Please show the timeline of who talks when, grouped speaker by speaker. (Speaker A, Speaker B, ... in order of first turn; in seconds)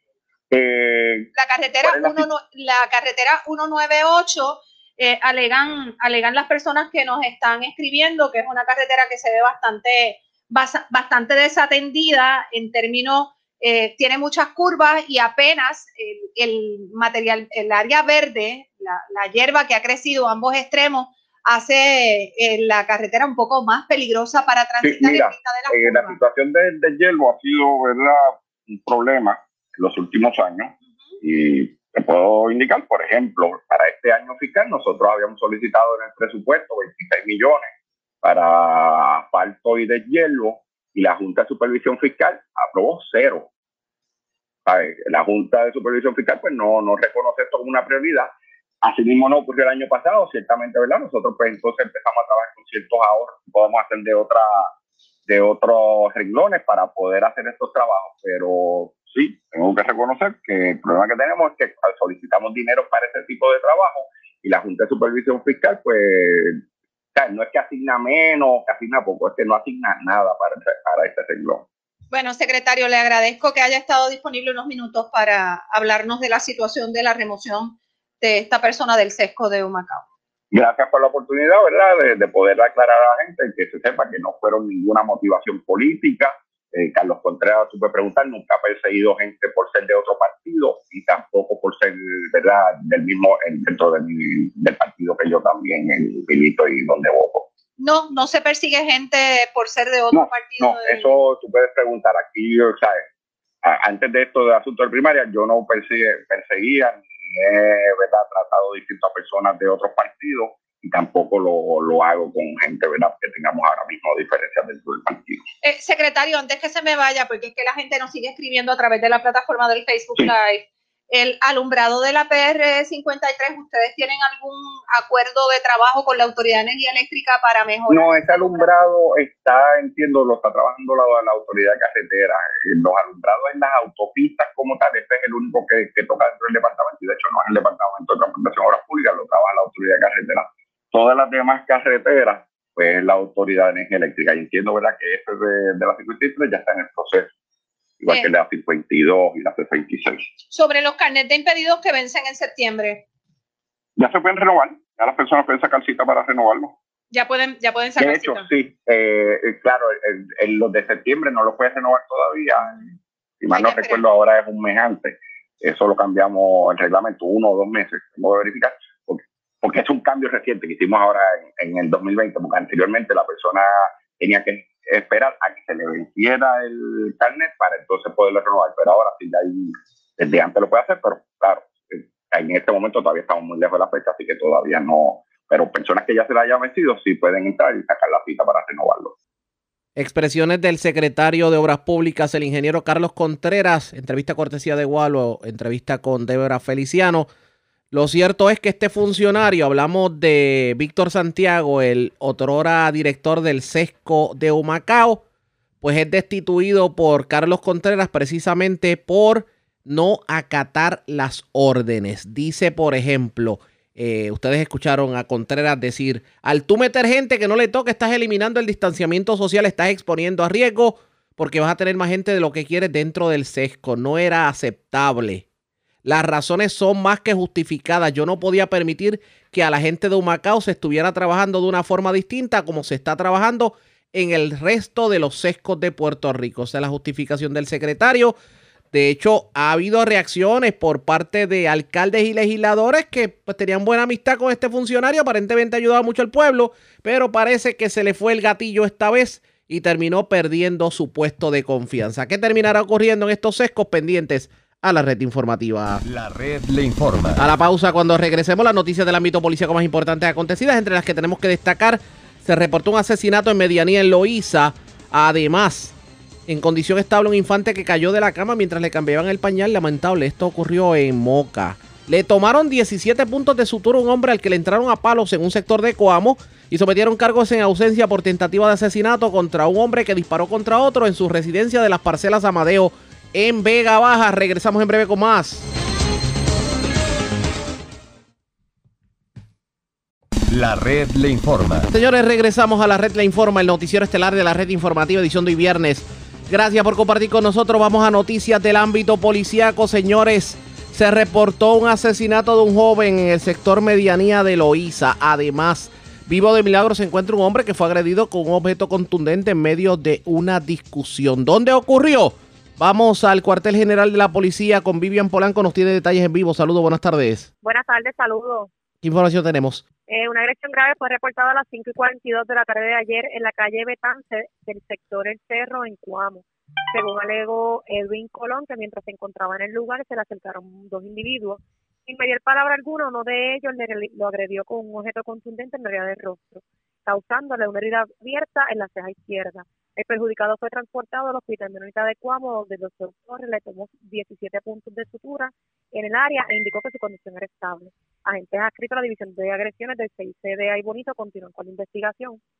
Speaker A: 0.5-1.3, 1.8-2.3, 24.8-37.7, 38.2-43.5, 44.6-54.7, 55.3-66.6, 67.1-71.7, 80.5-97.5, 100.1-103.0, 103.6-115.5, 127.9-147.3, 148.0-150.3, 154.0-156.7, 158.0-162.8, 163.4-189.1
Speaker B: 1.4-26.2, 72.1-80.0, 97.8-101.0, 115.6-128.7, 150.5-153.0, 157.1-158.5, 163.5-164.0
Speaker C: 189.9-197.3, 197.9-205.2, 205.8-225.4, 226.0-238.4, 238.9-256.0, 257.4-265.9, 266.5-285.6, 291.9-317.5, 319.0-319.8
Speaker D: 256.0-257.5, 290.5-291.9
Speaker E: 317.6-318.7, 320.1-352.4